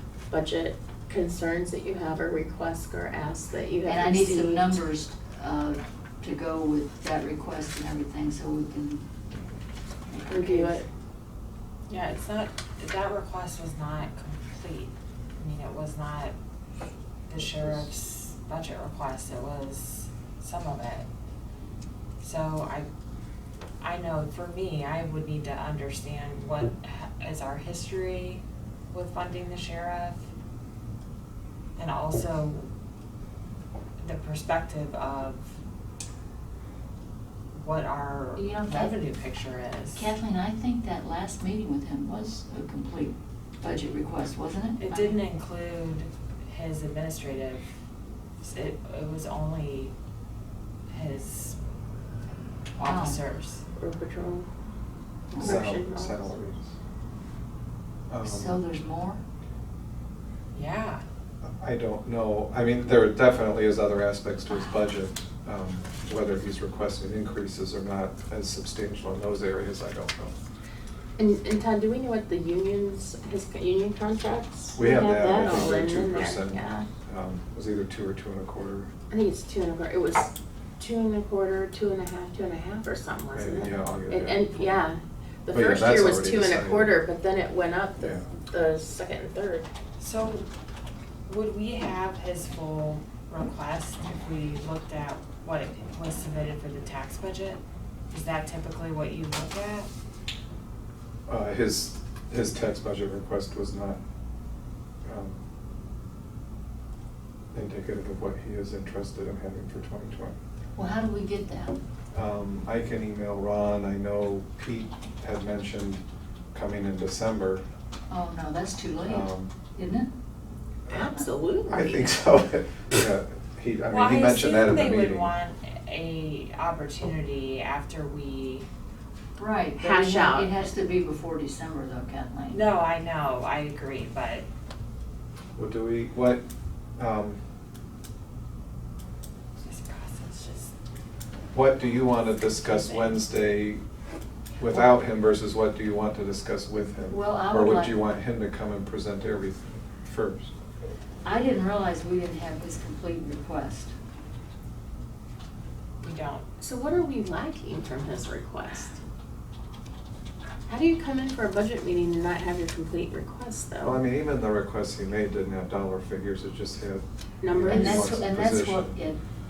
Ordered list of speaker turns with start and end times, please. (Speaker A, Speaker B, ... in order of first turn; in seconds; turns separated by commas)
Speaker A: 0.3-4.8, Speaker B: 3.9-9.0, Speaker B: 10.1-10.8, Speaker A: 10.3-10.8, Speaker C: 11.9-16.3, Speaker C: 17.3-21.1, Speaker D: 17.4-17.8, Speaker C: 22.2-22.9, Speaker C: 23.8-30.2, Speaker C: 31.8-32.7, Speaker C: 34.0-35.5, Speaker C: 37.5-40.1, Speaker B: 38.3-39.0, Speaker B: 39.9-45.2, Speaker C: 44.8-47.7, Speaker C: 48.4-49.9, Speaker C: 50.9-51.5, Speaker C: 52.8-53.6, Speaker B: 52.8-53.2, Speaker A: 53.8-54.5, Speaker B: 55.3-55.7, Speaker A: 55.3-56.4, Speaker D: 55.4-56.7, Speaker D: 58.1-58.6, Speaker B: 58.2-59.2, Speaker C: 60.5-61.0, Speaker D: 61.4-70.3, Speaker A: 71.2-76.9, Speaker D: 74.8-78.9, Speaker A: 79.1-89.7, Speaker D: 83.3-84.6, Speaker D: 85.5-86.9, Speaker C: 90.0-90.5, Speaker C: 91.2-99.9, Speaker D: 101.3-104.0, Speaker D: 105.0-105.4, Speaker D: 107.5-110.3, Speaker B: 110.8-111.8, Speaker D: 112.1-116.0, Speaker D: 116.5-117.6, Speaker B: 118.1-120.1, Speaker D: 119.0-119.5, Speaker A: 120.9-122.1, Speaker D: 121.7-125.3, Speaker C: 123.9-128.7, Speaker B: 129.3-132.6, Speaker A: 129.8-130.5, Speaker C: 132.5-134.4, Speaker D: 135.6-136.4, Speaker D: 137.0-137.4, Speaker C: 139.6-140.7, Speaker D: 141.5-143.8, Speaker C: 142.6-143.2, Speaker D: 144.6-150.5, Speaker B: 147.1-148.0, Speaker B: 151.2-153.9, Speaker C: 156.0-156.4, Speaker A: 156.6-159.0, Speaker A: 160.7-164.0, Speaker D: 163.8-168.9, Speaker A: 167.4-168.1, Speaker B: 167.7-169.2